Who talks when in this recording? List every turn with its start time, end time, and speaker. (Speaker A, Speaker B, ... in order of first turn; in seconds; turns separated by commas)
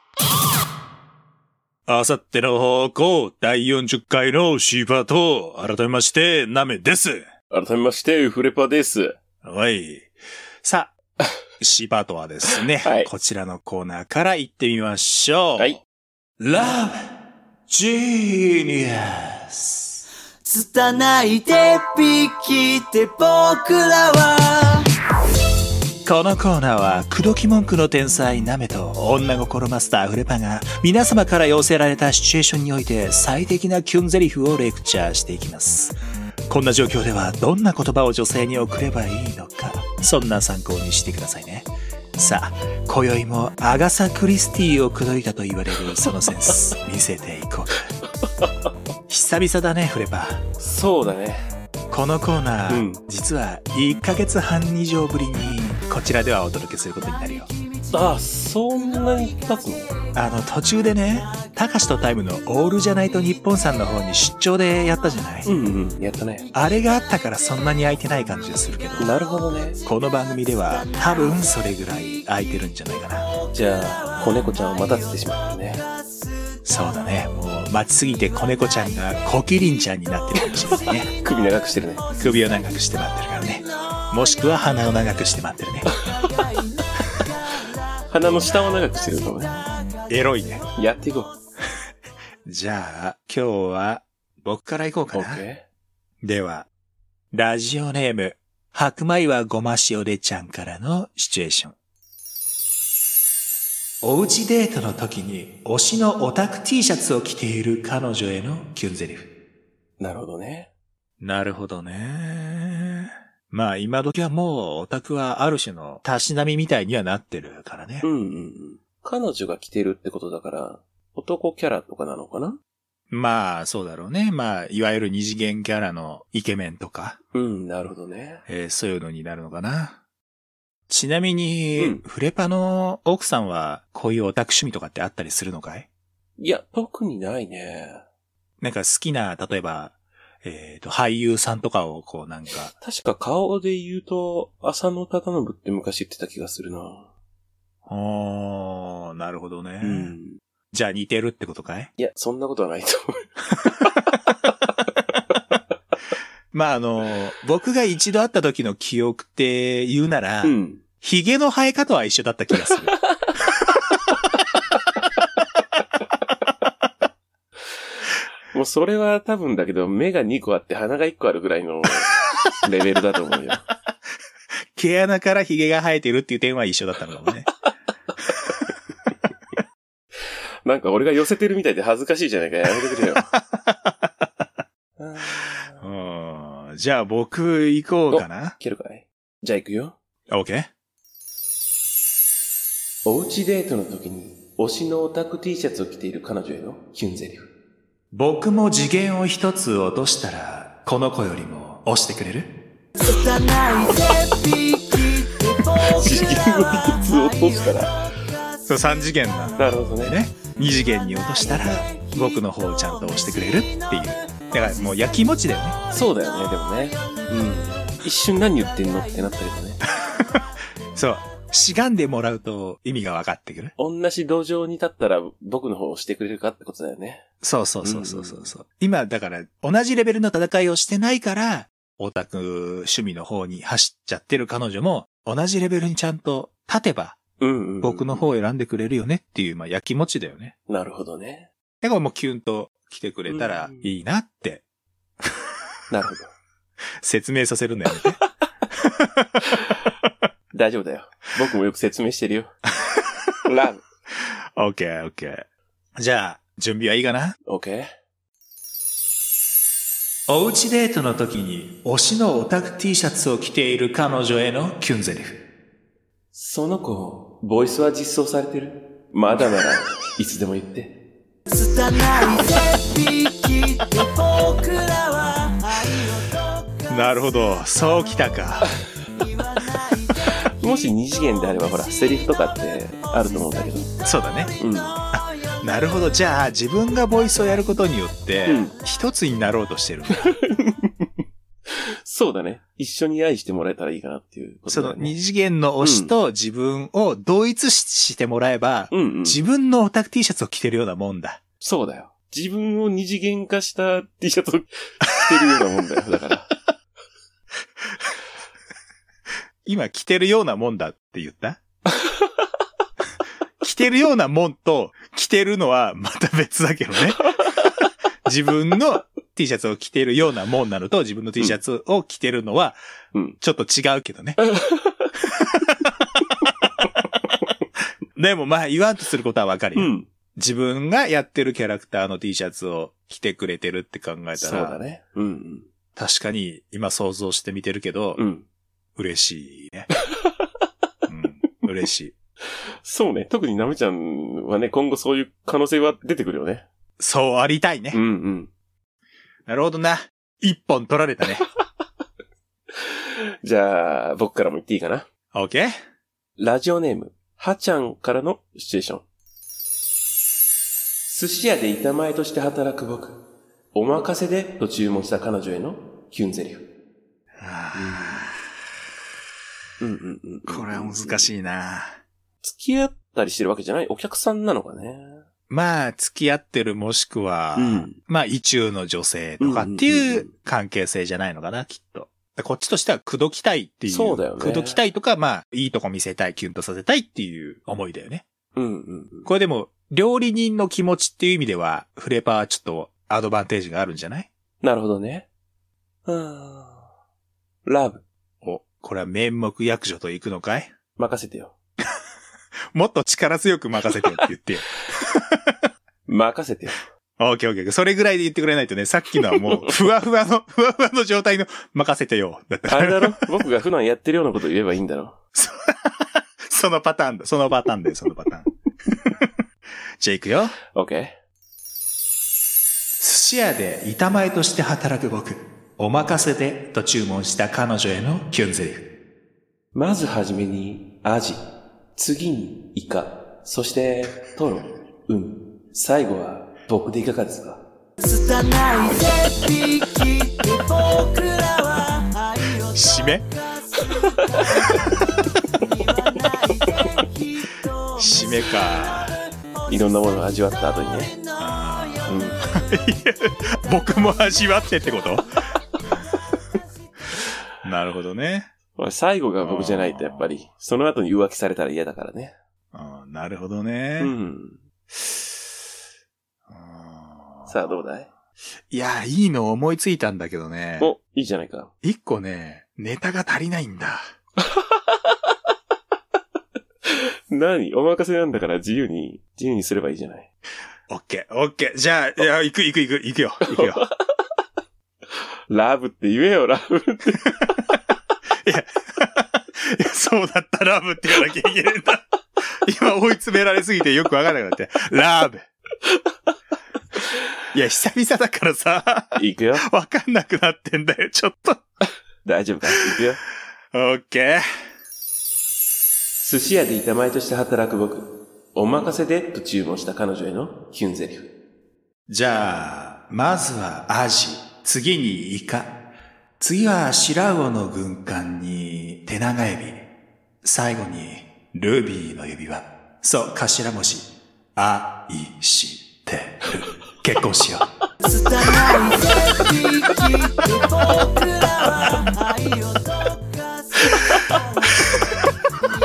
Speaker A: 1.9-7.3, Speaker B: 7.5-9.2, Speaker A: 9.4-10.1, Speaker A: 10.6-10.9, Speaker A: 11.6-15.8, Speaker B: 12.8-13.1, Speaker A: 16.4-17.1, Speaker A: 17.7-20.0, Speaker C: 20.4-24.8, Speaker A: 26.0-47.9, Speaker A: 49.1-50.4, Speaker B: 50.6-51.5, Speaker A: 51.9-57.5, Speaker B: 52.7-53.0, Speaker B: 57.9-59.9, Speaker A: 60.1-65.5, Speaker B: 65.4-66.5, Speaker A: 66.5-69.1, Speaker B: 69.0-69.8, Speaker A: 69.8-73.3, Speaker B: 73.5-75.8, Speaker A: 76.7-81.1, Speaker B: 81.2-82.1, Speaker A: 82.2-85.9, Speaker B: 88.1-89.6, Speaker A: 90.1-90.6, Speaker B: 90.7-91.3, Speaker A: 92.4-95.4, Speaker B: 95.1-95.6, Speaker A: 96.2-96.7, Speaker A: 97.3-101.7, Speaker A: 104.0-109.3, Speaker B: 110.0-110.7, Speaker A: 111.2-118.1, Speaker B: 118.0-122.6, Speaker A: 123.1-127.2, Speaker B: 127.3-128.4, Speaker A: 128.5-130.0, Speaker A: 130.9-135.9, Speaker B: 131.8-132.0, Speaker B: 136.4-138.0, Speaker A: 138.6-142.7, Speaker B: 142.8-147.1, Speaker A: 147.8-150.1, Speaker B: 149.8-150.4, Speaker A: 150.7-151.9, Speaker B: 152.0-153.3, Speaker A: 156.5-162.9, Speaker B: 160.4-160.8, Speaker B: 168.5-173.7, Speaker A: 174.7-177.5, Speaker B: 180.7-183.3, Speaker A: 183.5-184.5, Speaker B: 185.0-185.8, Speaker A: 185.8-188.6, Speaker B: 188.1-189.9, Speaker A: 190.3-190.7, Speaker B: 193.0-197.5, Speaker A: 198.1-202.6, Speaker C: 203.0-206.3, Speaker B: 205.9-208.0, Speaker A: 208.7-215.8, Speaker B: 209.6-210.1, Speaker B: 215.9-219.8, Speaker A: 220.1-220.4, Speaker A: 220.9-223.7, Speaker B: 223.8-227.2, Speaker A: 227.4-237.2, Speaker B: 227.8-228.5, Speaker B: 237.4-238.3, Speaker A: 237.8-240.5, Speaker B: 240.7-241.5, Speaker A: 241.8-244.6, Speaker B: 243.3-243.9, Speaker B: 245.9-246.3, Speaker A: 247.0-248.2, Speaker A: 248.8-249.4, Speaker B: 250.5-252.5, Speaker B: 253.4-253.8, Speaker A: 254.2-255.4, Speaker A: 255.9-257.4, Speaker B: 257.4-257.9, Speaker A: 260.3-265.4, Speaker B: 266.3-271.0, Speaker C: 271.5-276.2, Speaker A: 276.9-278.7, Speaker B: 280.3-283.9, Speaker A: 284.0-284.5, Speaker B: 284.6-285.0, Speaker A: 285.1-290.4, Speaker B: 288.4-288.7, Speaker B: 290.4-291.1, Speaker B: 291.7-295.2, Speaker A: 294.7-301.4, Speaker B: 295.8-296.1, Speaker B: 298.9-299.4, Speaker B: 301.6-306.5, Speaker A: 309.6-311.6, Speaker A: 313.6-317.5, Speaker A: 318.2-322.8, Speaker A: 323.4-324.4, Speaker B: 324.4-325.1, Speaker A: 325.3-326.0, Speaker A: 328.1-334.8, Speaker B: 329.7-330.1, Speaker B: 334.4-335.7, Speaker A: 335.9-338.2, Speaker B: 338.2-338.4, Speaker A: 338.9-339.9, Speaker A: 341.1-342.1, Speaker B: 342.8-346.6, Speaker A: 347.0-348.0, Speaker B: 347.9-348.5, Speaker A: 349.5-351.4, Speaker B: 352.8-355.1, Speaker A: 355.3-355.8, Speaker B: 356.4-359.0, Speaker B: 361.1-363.2, Speaker B: 363.7-366.6, Speaker A: 367.4-368.4, Speaker B: 367.7-368.3, Speaker B: 369.8-371.3, Speaker A: 370.5-372.0, Speaker B: 372.4-375.2, Speaker A: 375.5-388.2, Speaker B: 377.6-378.0, Speaker B: 379.4-380.3, Speaker B: 383.9-384.8, Speaker B: 388.6-389.3, Speaker A: 389.2-394.3, Speaker B: 394.6-395.2, Speaker B: 396.1-396.8, Speaker B: 397.6-398.0, Speaker A: 398.4-400.7, Speaker B: 401.0-401.5, Speaker A: 402.7-405.6, Speaker B: 406.1-406.8, Speaker A: 407.2-413.3, Speaker B: 409.2-409.8, Speaker B: 412.7-415.1, Speaker A: 415.3-419.3, Speaker A: 420.0-420.6, Speaker B: 420.7-421.1, Speaker A: 423.0-428.9, Speaker B: 429.7-431.4, Speaker B: 431.9-437.6, Speaker C: 438.0-442.6, Speaker A: 442.7-443.2, Speaker B: 444.2-444.9, Speaker C: 446.3-446.6, Speaker A: 447.9-449.1, Speaker B: 449.7-451.1, Speaker A: 451.4-455.3, Speaker B: 452.1-452.4, Speaker A: 457.6-458.5, Speaker B: 458.8-462.3, Speaker A: 459.4-460.4, Speaker A: 462.7-464.1, Speaker B: 464.0-464.6, Speaker A: 466.5-467.6, Speaker B: 467.5-468.1, Speaker A: 468.7-470.9, Speaker B: 470.8-471.7, Speaker A: 471.8-474.1, Speaker B: 474.4-474.7, Speaker B: 476.9-480.3, Speaker A: 480.9-483.8, Speaker B: 483.4-483.9, Speaker B: 485.5-487.5, Speaker A: 488.4-495.5, Speaker A: 497.5-501.6, Speaker B: 499.1-499.6, Speaker B: 502.2-503.2, Speaker A: 503.7-504.4, Speaker B: 506.2-511.3, Speaker A: 512.1-515.8, Speaker A: 516.4-519.8, Speaker A: 520.4-527.7, Speaker C: 528.0-533.1, Speaker C: 533.7-534.6